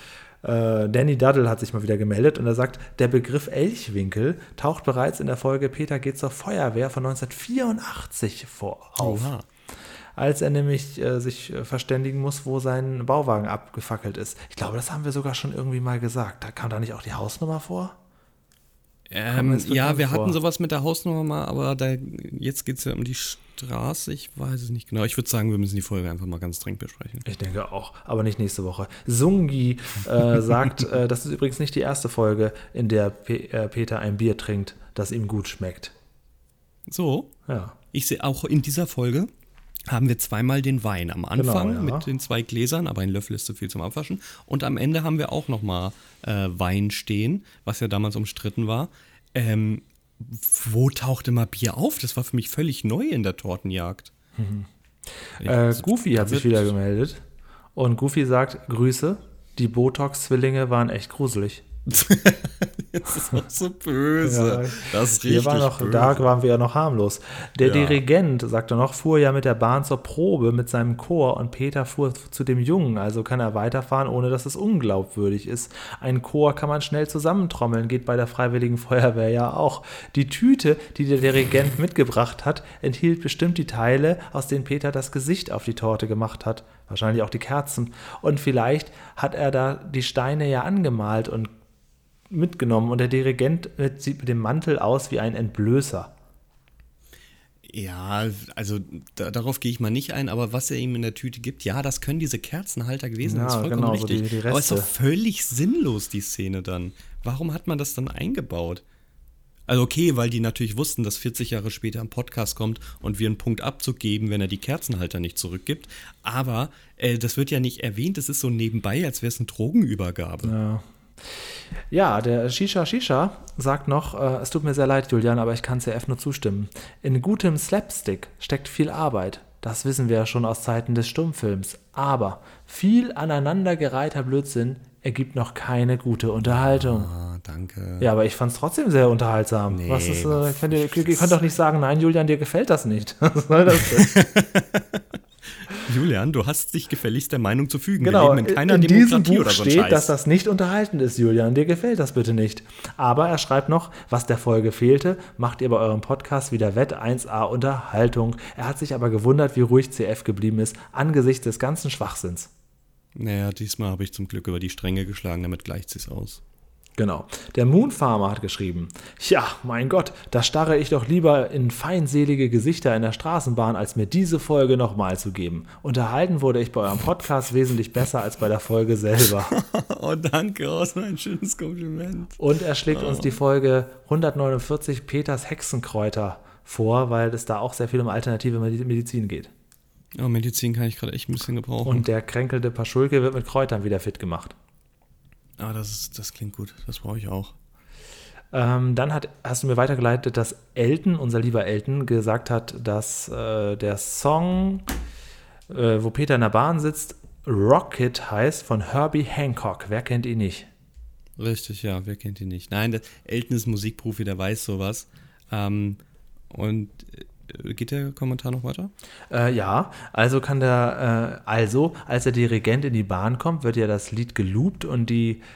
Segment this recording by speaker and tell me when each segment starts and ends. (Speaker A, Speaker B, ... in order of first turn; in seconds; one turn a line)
Speaker A: 0.4-9.3
Speaker B: 9.0-9.4
Speaker A: 10.2-18.0
Speaker B: 19.1-27.2
Speaker A: 19.3-20.4
Speaker A: 27.2-35.9
Speaker B: 36.9-37.3
Speaker A: 37.5-37.8
Speaker B: 37.9-39.3
Speaker B: 39.9-54.1
Speaker A: 41.4-42.0
Speaker A: 54.4-57.2
Speaker B: 55.4-56.7
Speaker A: 57.7-61.6
Speaker B: 61.9-66.3
Speaker A: 64.2-91.5
Speaker B: 67.6-68.0
Speaker A: 92.3-96.1
Speaker B: 97.6-108.8
Speaker A: 103.2-104.9
Speaker B: 109.7-120.5
Speaker A: 120.4-137.1
Speaker B: 136.5-138.1
Speaker A: 138.0-144.1
Speaker B: 139.7-141.3
Speaker B: 143.9-145.0
Speaker B: 145.7-150.1
Speaker A: 148.0-162.5
Speaker B: 163.1-166.4
Speaker A: 166.9-179.5
Speaker B: 179.4-183.3
Speaker A: 182.4-189.5
Speaker B: 190.2-192.1
Speaker A: 191.8-194.6
Speaker B: 195.6-197.6
Speaker A: 198.5-204.9
Speaker A: 205.7-210.7
Speaker B: 211.4-218.9
Speaker A: 219.3-225.4